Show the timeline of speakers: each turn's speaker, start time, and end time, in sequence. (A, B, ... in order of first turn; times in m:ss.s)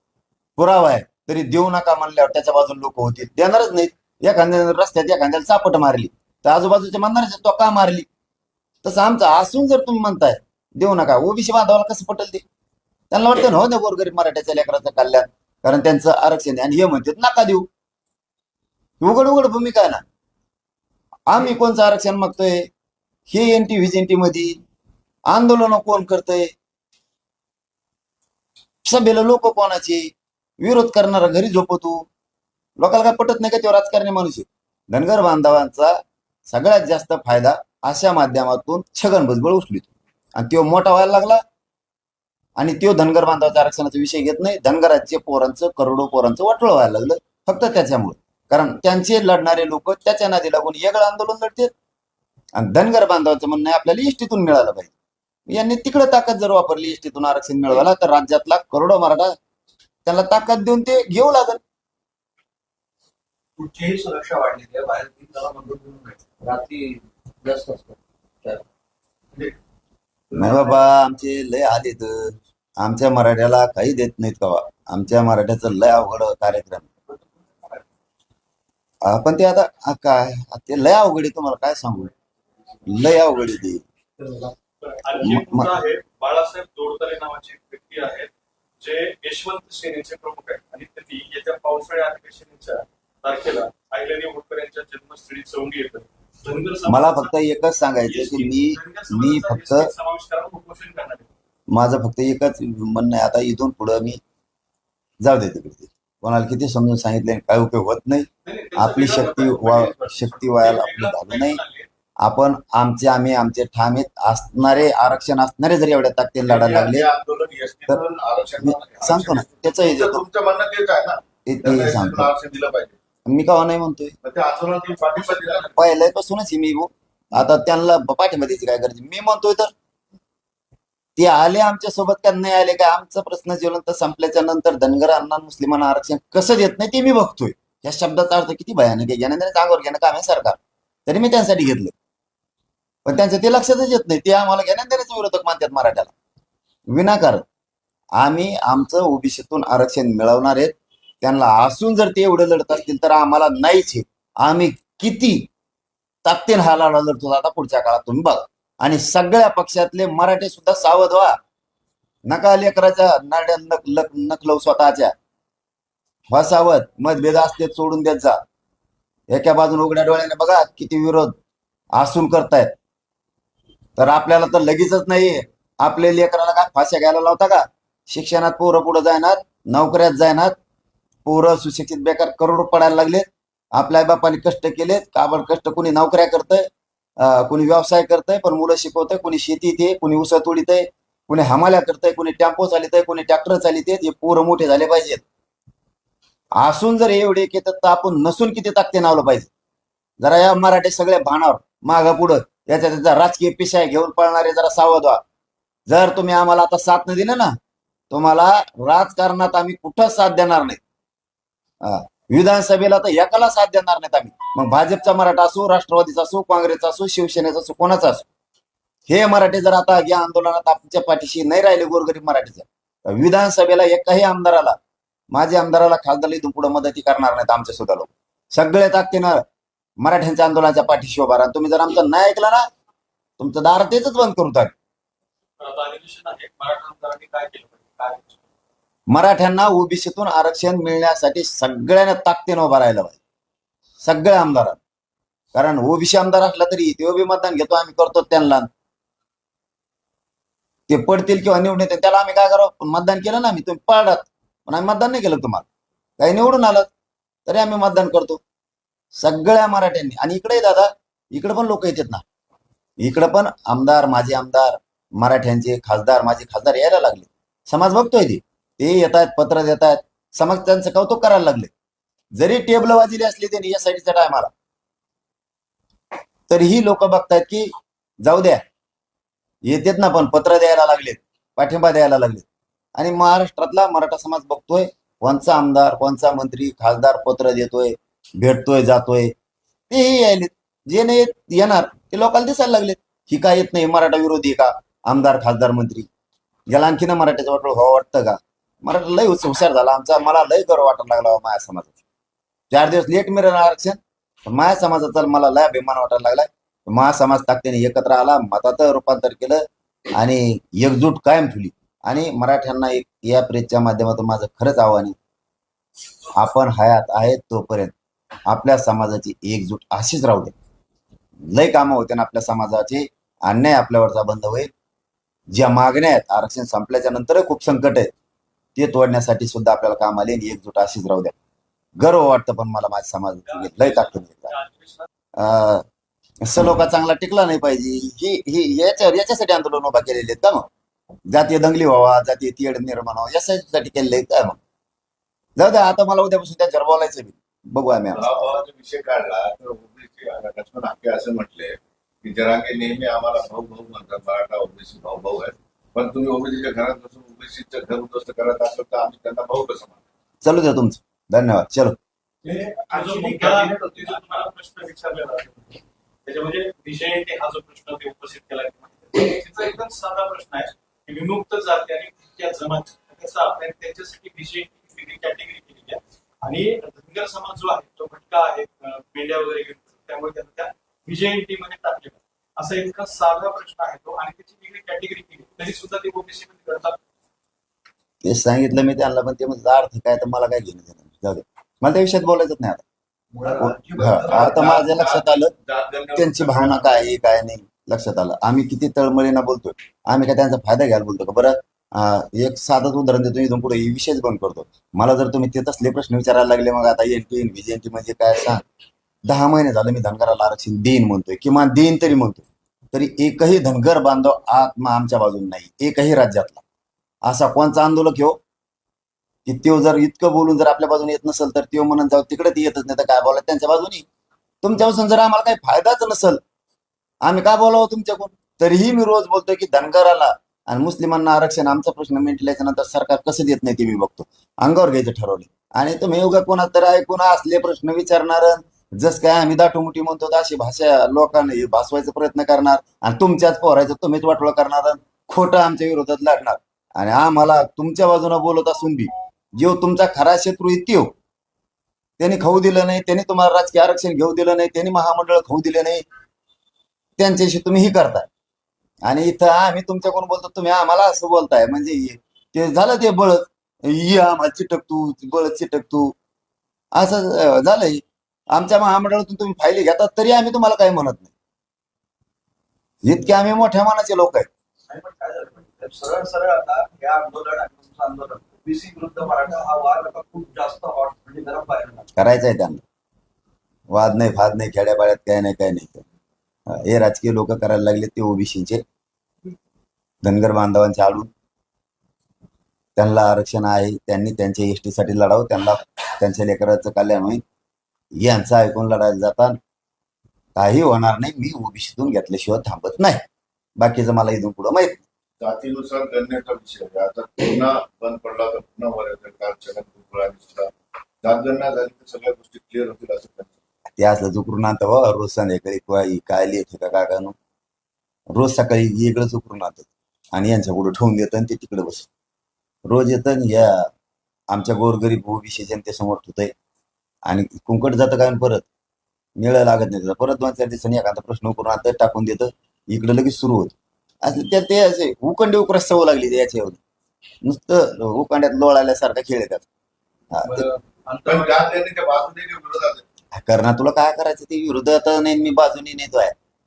0:00.6-0:08.1 A
0:08.8-0:12.4 A
0:13.1-0:17.7 A
0:19.0-0:20.0 A
0:21.3-0:22.7 A
0:23.3-0:24.5 A
0:25.3-0:26.5 A
0:28.8-0:32.0 A
0:32.8-0:35.9 A
0:36.5-0:41.4 A
0:42.6-0:51.7 A
0:52.5-0:54.9 A
0:55.5-0:59.3 A
1:00.0-1:01.6 A
1:03.6-1:08.6 B
1:10.3-1:16.9 A
1:10.3-1:10.7 B
1:19.0-1:22.1 A
1:22.8-1:23.8 A
1:24.2-1:24.5 B
1:24.8-1:37.3 C
1:25.2-1:25.7 A
1:36.9-1:39.9 A
1:38.0-1:41.3 C
1:41.7-1:44.2 A
1:45.2-1:51.6 A
1:48.4-1:51.9 C
1:52.2-1:57.1 A
1:56.4-2:03.0 D
1:58.6-2:00.2 A
2:01.4-2:02.3 A
2:03.2-2:04.1 A
2:04.2-2:05.8 D
2:05.1-2:05.6 C
2:05.7-2:09.7 A
2:11.2-2:21.9 A
2:23.0-2:26.1 A
2:26.9-2:27.4 A
2:28.2-2:35.5 A
2:36.2-2:41.4 A
2:42.3-2:45.1 A
2:46.3-2:48.4 A
2:49.3-2:51.3 A
2:52.0-2:52.7 A
2:54.0-3:00.5 A
3:01.2-3:15.2 A
3:16.6-3:19.5 A
3:20.2-3:25.2 A
3:25.9-3:27.5 A
3:28.1-3:30.8 A
3:31.8-3:38.3 A
3:39.1-3:44.8 A
3:45.3-3:49.4 A
3:50.0-3:52.6 A
3:53.4-3:54.7 A
3:55.6-3:58.4 C
3:59.1-4:03.2 A
4:04.0-4:04.8 A
4:05.5-4:08.7 A
4:10.9-4:15.6 A
4:16.2-4:16.9 A
4:17.5-4:18.4 A
4:19.1-4:22.2 A
4:23.0-4:31.7 A
4:32.4-4:34.5 A
4:36.5-4:38.6 A
4:39.6-4:49.3 A
4:49.9-4:56.1 A
4:56.7-5:02.0 A
5:02.7-5:09.6 A
5:10.1-5:15.2 A
5:16.3-5:17.9 A
5:18.4-5:20.5 A
5:21.4-5:24.7 A
5:25.5-5:28.1 A
5:28.8-5:31.3 A
5:32.0-5:34.5 A
5:33.4-5:35.1 C
5:35.3-5:35.8 A
5:36.4-5:40.7 A
5:41.3-5:44.6 A
5:45.6-5:48.4 A
5:48.1-6:00.0 D
6:00.4-6:02.0 A
6:02.4-6:04.4 B
6:02.9-6:27.0 C
6:28.2-6:32.8 A
6:33.3-6:34.9 B
6:33.6-6:35.5 A
6:33.9-6:37.1 D
6:36.2-6:48.6 A
6:49.2-6:56.6 A
6:57.2-6:58.4 A
6:59.4-7:04.0 A
7:04.6-7:06.4 A
7:07.2-7:31.1 A
7:32.2-7:36.0 A
7:37.2-7:38.3 A
7:39.0-7:46.1 A
7:46.9-7:51.3 A
7:53.0-7:54.5 A
7:54.9-8:02.1 B
8:02.2-8:02.8 A
8:03.9-8:06.0 A
8:06.7-8:08.8 A
8:10.2-8:11.3 A
8:13.0-8:17.4 A
8:18.2-8:19.6 A
8:20.6-8:23.2 A
8:23.8-8:25.0 A
8:25.4-8:30.7 D
8:31.2-8:33.6 D
8:33.9-8:37.3 A
8:38.3-8:42.1 A
8:42.8-8:43.9 A
8:44.5-8:46.5 A
8:47.2-8:48.7 A
8:49.4-8:56.8 A
8:57.4-8:59.6 A
9:00.3-9:00.6 A
9:00.4-9:01.9 B
9:01.2-9:03.0 D
9:03.3-9:06.3 A